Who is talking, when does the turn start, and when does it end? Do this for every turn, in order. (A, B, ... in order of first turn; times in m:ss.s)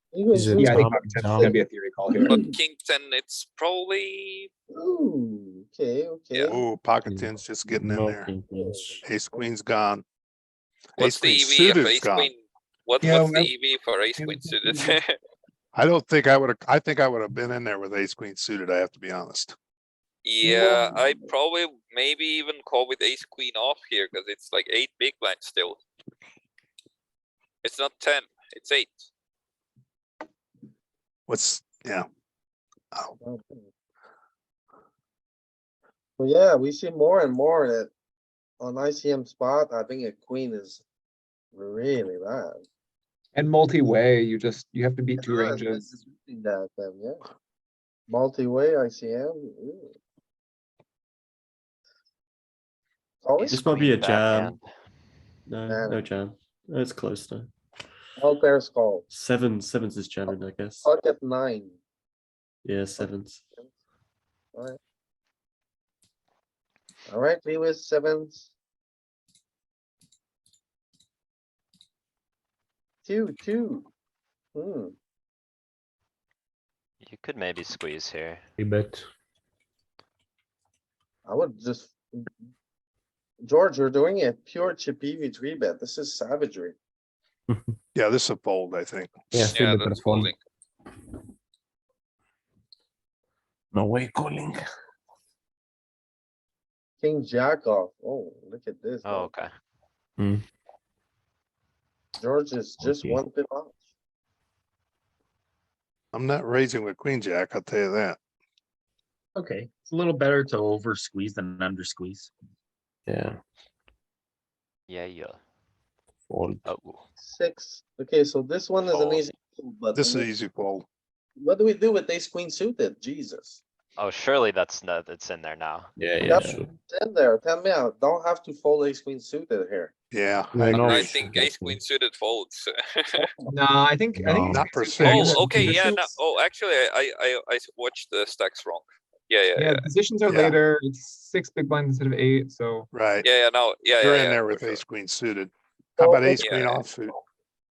0:00.1-0:01.6 A
0:00.3-0:01.6 B
0:00.6-0:02.4 C
0:02.1-0:02.5 A
0:02.2-0:04.5 D
0:04.7-0:06.6 A
0:06.4-0:06.6 D
0:06.5-0:08.4 E
0:07.0-0:09.0 B
0:08.5-0:09.4 A
0:09.0-0:10.0 E
0:11.0-0:12.3 E
0:11.0-0:15.1 D
0:13.0-0:13.6 C
0:14.2-0:15.0 C
0:15.7-0:19.6 E
0:20.2-0:25.8 D
0:20.4-0:21.3 C
0:27.6-0:29.1 D
0:31.3-0:32.1 E
0:33.2-0:33.6 A
0:36.2-0:37.9 A
0:38.6-0:40.8 A
0:41.5-0:42.6 A
0:43.3-0:45.9 C
0:45.2-0:47.2 A
0:48.1-0:49.9 A
0:53.2-0:53.8 A
0:53.4-0:54.7 F
0:53.5-0:54.6 G
0:55.5-0:57.5 G
0:55.7-0:56.0 A
0:58.2-0:59.0 A
0:59.1-1:00.9 G
1:00.3-1:01.8 A
1:02.6-1:03.4 G
1:03.0-1:03.6 A
1:07.1-1:08.5 A
1:13.0-1:13.9 A
1:14.5-1:14.9 A
1:17.0-1:18.4 F
1:18.6-1:19.0 B
1:21.2-1:22.3 A
1:23.4-1:26.7 A
1:27.5-1:27.7 B
1:27.9-1:29.1 E
1:29.3-1:30.3 B
1:29.5-1:30.4 D
1:33.7-1:34.6 B
1:37.0-1:39.3 A
1:39.0-1:39.5 F
1:40.2-1:40.4 B
1:42.2-1:43.8 A
1:42.8-1:43.2 B
1:46.1-1:48.2 E
1:49.3-1:52.3 H
1:53.1-1:53.4 B
1:54.9-1:55.4 F
1:56.3-1:56.6 B
1:56.6-1:57.0 F
1:57.2-2:00.3 A
1:58.8-1:59.2 F
1:59.9-2:00.9 E
2:01.4-2:03.6 A
2:04.0-2:05.9 F
2:06.0-2:06.7 B
2:06.2-2:09.9 A
2:10.1-2:11.2 E
2:10.5-2:11.8 B
2:10.7-2:13.2 D
2:13.2-2:13.5 A
2:13.5-2:16.2 C
2:14.1-2:14.8 B
2:14.5-2:15.2 E
2:14.8-2:19.8 D
2:15.4-2:15.8 B
2:19.6-2:22.9 C
2:20.2-2:20.6 E
2:22.9-2:23.3 E
2:23.2-2:24.8 D
2:24.0-2:27.2 E
2:26.0-2:26.5 A
2:26.4-2:26.8 D